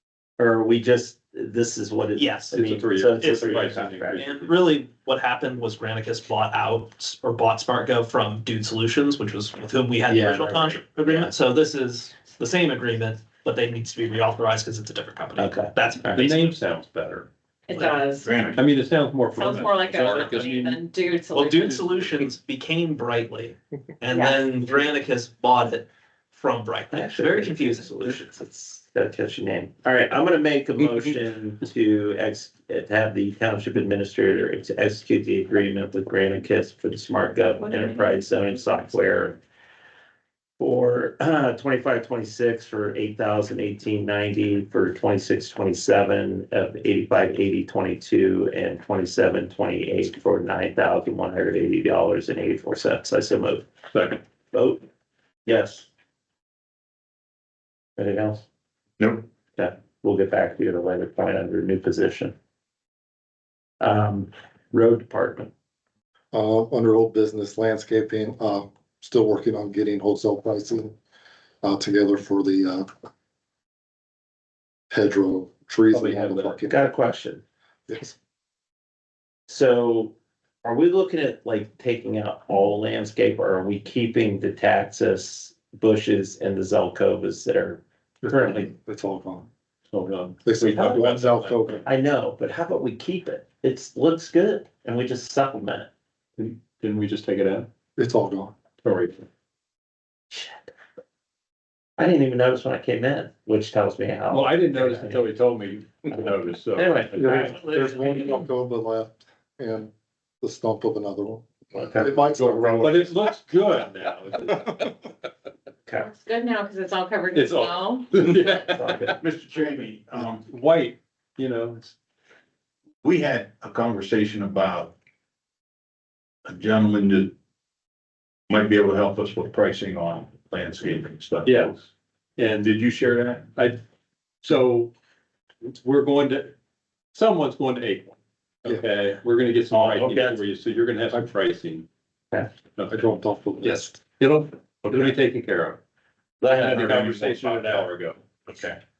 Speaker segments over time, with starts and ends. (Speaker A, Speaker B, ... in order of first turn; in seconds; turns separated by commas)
Speaker A: 0.4-4.3, Speaker B: 2.1-2.5, Speaker C: 2.5-4.6, Speaker B: 4.2-16.6, Speaker A: 10.1-11.3, Speaker A: 15.3-16.2, Speaker C: 16.1-17.3, Speaker D: 17.7-18.4, Speaker E: 18.1-18.6, Speaker C: 18.5-20.8, Speaker D: 19.3-21.9, Speaker B: 21.3-28.3, Speaker D: 24.1-24.4, Speaker A: 26.9-39.4, Speaker D: 37.8-38.2, Speaker A: 40.6-53.7, Speaker C: 53.9-54.2, Speaker A: 54.5-54.8, Speaker A: 55.5-55.9, Speaker A: 58.0-58.4, Speaker E: 59.0-59.2, Speaker A: 59.5-62.3, Speaker A: 63.8-65.5, Speaker F: 66.3-70.9, Speaker F: 71.6-72.9, Speaker F: 74.9-76.8, Speaker C: 75.9-76.5, Speaker A: 76.6-77.4, Speaker F: 77.9-78.1, Speaker A: 79.5-88.7, Speaker F: 88.2-89.5, Speaker C: 89.9-91.8, Speaker F: 90.4-91.8, Speaker A: 91.8-95.9, Speaker C: 96.4-97.7, Speaker F: 98.0-98.5, Speaker C: 98.8-99.2, Speaker A: 100.3-100.7, Speaker A: 102.0-105.3, Speaker C: 104.3-107.4, Speaker A: 106.7-108.4, Speaker F: 107.1-113.2, Speaker A: 111.7-112.2, Speaker C: 112.4-114.9, Speaker D: 116.0-118.7, Speaker C: 117.3-119.1, Speaker A: 118.8-119.1, Speaker E: 119.2-120.5, Speaker C: 120.5-122.0, Speaker E: 123.0-124.9, Speaker E: 126.5-127.3, Speaker E: 128.5-131.8, Speaker C: 131.4-133.8, Speaker C: 134.4-134.9, Speaker C: 135.6-136.5, Speaker C: 137.1-141.9, Speaker E: 139.7-140.4, Speaker C: 142.8-143.1, Speaker F: 142.9-143.9, Speaker C: 143.6-145.8, Speaker E: 144.8-145.1, Speaker C: 146.4-148.2, Speaker E: 146.5-147.9, Speaker E: 148.5-148.8